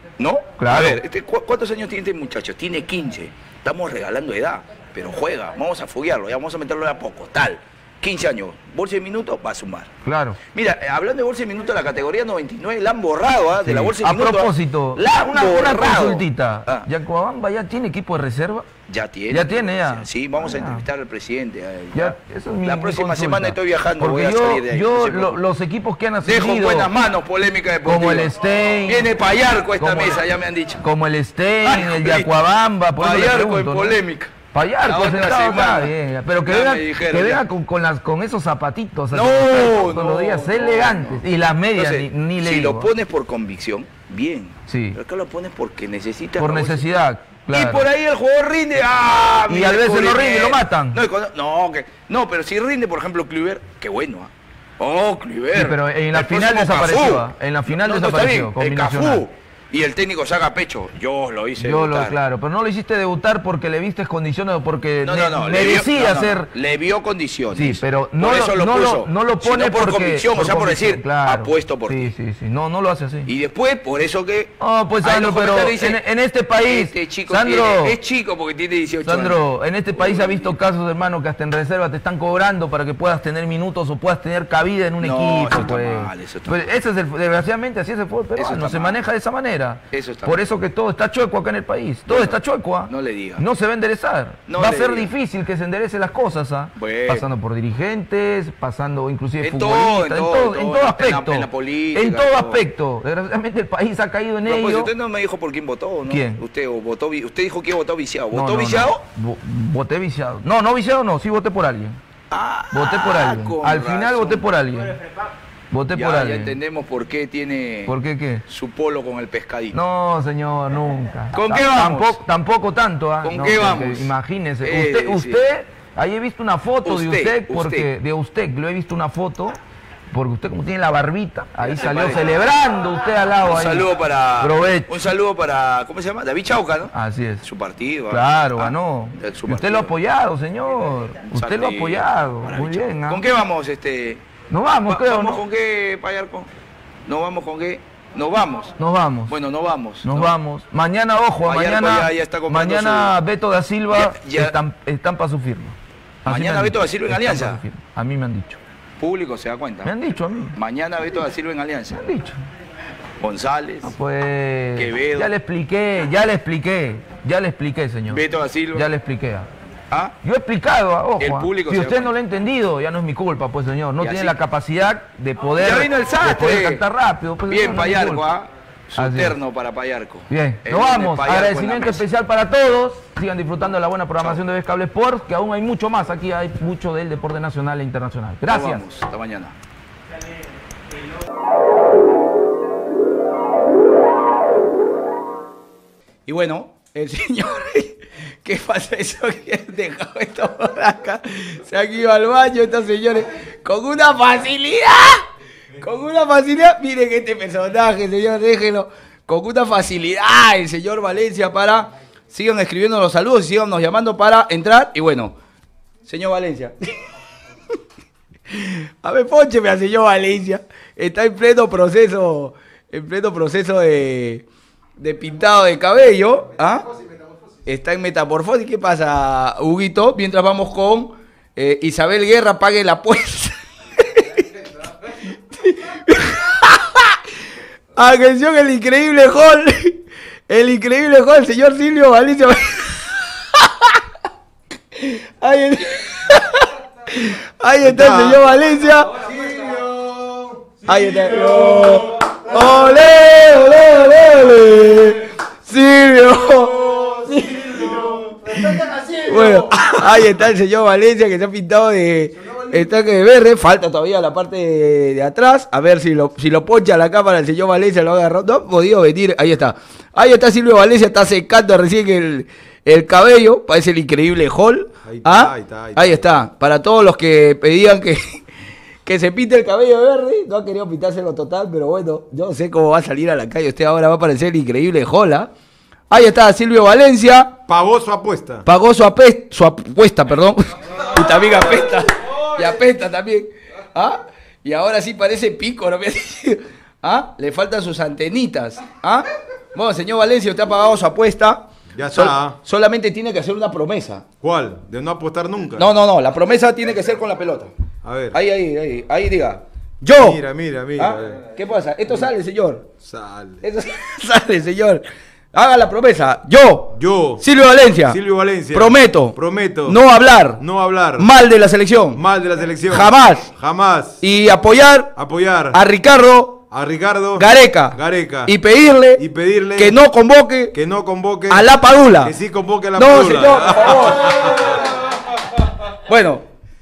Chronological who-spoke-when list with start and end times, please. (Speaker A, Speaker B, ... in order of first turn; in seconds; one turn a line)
Speaker A: 0.2-9.9
Speaker B: 0.6-1.0
Speaker B: 10.0-10.4
Speaker A: 10.5-16.9
Speaker B: 13.6-18.7
Speaker A: 18.9-25.4
Speaker B: 19.3-20.8
Speaker B: 21.9-26.9
Speaker A: 26.2-28.3
Speaker B: 27.8-29.1
Speaker A: 28.9-30.8
Speaker B: 29.8-30.2
Speaker B: 30.8-34.0
Speaker A: 31.6-32.4
Speaker A: 33.0-35.9
Speaker B: 34.5-42.9
Speaker A: 36.4-37.5
Speaker A: 39.1-46.9
Speaker B: 44.7-45.0
Speaker B: 46.4-47.9
Speaker A: 47.5-62.2
Speaker B: 49.5-51.0
Speaker B: 55.5-59.2
Speaker B: 61.6-66.5
Speaker A: 65.0-72.1
Speaker B: 67.5-73.3
Speaker A: 73.2-76.0
Speaker B: 74.6-78.0
Speaker A: 76.6-79.4
Speaker B: 79.0-104.9
Speaker A: 79.9-80.5
Speaker A: 85.0-86.6
Speaker A: 88.3-89.0
Speaker A: 89.9-90.4
Speaker A: 92.1-93.4
Speaker A: 94.5-95.1
Speaker A: 96.8-97.3
Speaker A: 99.4-102.6
Speaker A: 104.5-109.0
Speaker B: 106.1-106.4
Speaker B: 108.3-112.0
Speaker A: 112.3-114.5
Speaker B: 112.7-115.0
Speaker B: 115.7-116.6
Speaker A: 115.9-117.9
Speaker B: 117.8-118.4
Speaker A: 118.5-119.8
Speaker B: 119.7-129.6
Speaker A: 121.3-122.2
Speaker A: 123.2-125.4
Speaker A: 126.8-127.9
Speaker B: 130.1-133.9
Speaker A: 131.6-132.4
Speaker A: 133.4-139.9
Speaker B: 134.4-134.9
Speaker B: 136.9-137.4
Speaker B: 138.1-143.2
Speaker A: 141.3-144.2
Speaker B: 144.5-145.4
Speaker A: 144.8-146.5
Speaker A: 147.1-148.7
Speaker B: 148.8-149.4
Speaker A: 149.3-150.3
Speaker B: 150.0-158.6
Speaker A: 151.4-153.1
Speaker A: 153.9-154.6
Speaker A: 156.2-157.6
Speaker A: 159.0-159.9
Speaker B: 159.8-160.6
Speaker A: 160.5-162.0
Speaker B: 161.9-162.4
Speaker A: 163.2-163.9
Speaker B: 163.8-169.5
Speaker A: 164.7-165.3
Speaker A: 168.1-168.9
Speaker A: 169.9-170.1
Speaker B: 170.2-178.2
Speaker A: 171.2-172.2
Speaker A: 174.0-174.4
Speaker A: 175.6-176.8
Speaker A: 177.5-182.0
Speaker B: 178.9-179.4
Speaker B: 180.3-188.8
Speaker A: 188.5-189.5
Speaker A: 196.3-215.3
Speaker A: 216.0-216.9
Speaker A: 218.5-224.4
Speaker A: 225.0-226.9
Speaker A: 227.6-234.6
Speaker A: 235.5-237.2
Speaker A: 237.9-244.0
Speaker A: 244.9-249.2
Speaker C: 247.8-248.4
Speaker C: 249.2-252.1
Speaker A: 250.8-278.4
Speaker C: 275.0-276.3
Speaker A: 279.0-285.5
Speaker A: 286.1-287.5
Speaker C: 287.7-288.6
Speaker A: 288.6-304.2
Speaker C: 301.9-302.6
Speaker C: 304.4-305.9
Speaker A: 305.8-307.7
Speaker C: 308.0-308.4
Speaker A: 308.3-310.4
Speaker C: 310.2-311.4
Speaker A: 310.9-312.9
Speaker C: 313.0-313.6
Speaker A: 313.6-318.2
Speaker C: 316.9-317.4
Speaker C: 318.1-320.0
Speaker A: 318.7-320.6
Speaker C: 320.6-321.3
Speaker A: 321.1-322.2
Speaker C: 322.1-324.2
Speaker A: 322.9-323.5
Speaker A: 324.2-325.1
Speaker C: 325.1-325.8
Speaker A: 325.7-326.6
Speaker C: 326.7-328.5
Speaker A: 327.4-329.2
Speaker C: 329.2-330.0
Speaker A: 329.7-330.7
Speaker C: 330.7-331.7
Speaker A: 331.5-332.3
Speaker C: 332.2-334.9
Speaker A: 332.9-334.8
Speaker A: 336.0-336.4